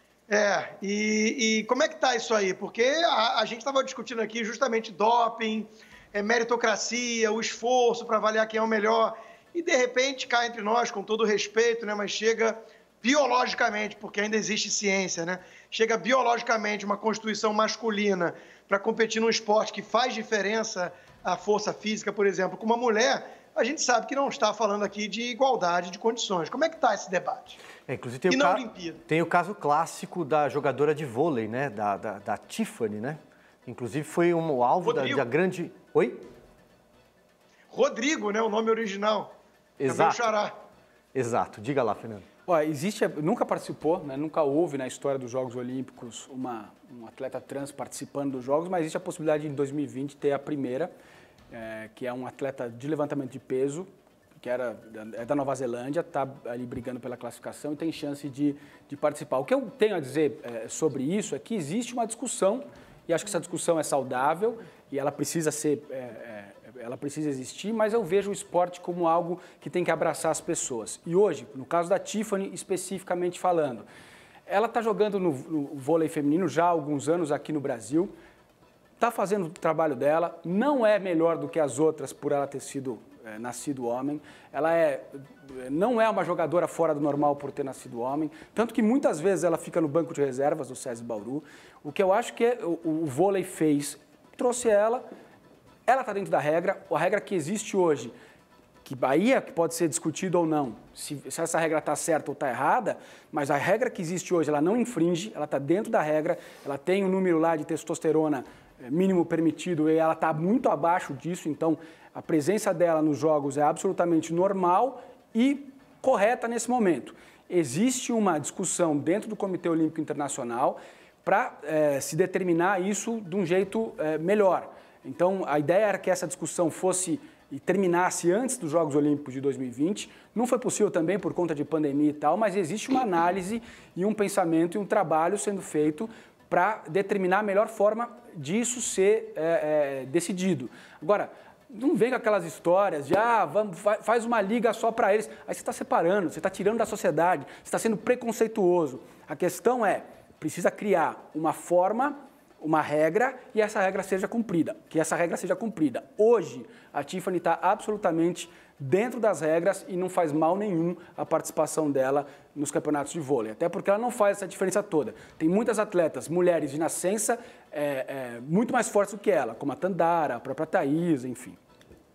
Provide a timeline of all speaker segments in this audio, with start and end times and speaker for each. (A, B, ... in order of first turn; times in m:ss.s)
0:00.3-0:27.6 A
0:27.9-0:36.2 B
0:28.3-0:29.0 A
0:34.8-0:35.2 A
0:37.7-0:39.3 A
0:39.8-0:40.3 B
0:39.9-0:40.5 A
0:41.1-0:42.2 B
0:42.5-0:50.9 C
0:51.5-1:13.9 C
1:14.5-1:18.1 C
1:19.0-1:35.0 C
1:35.9-1:38.1 C
1:38.8-2:51.6 C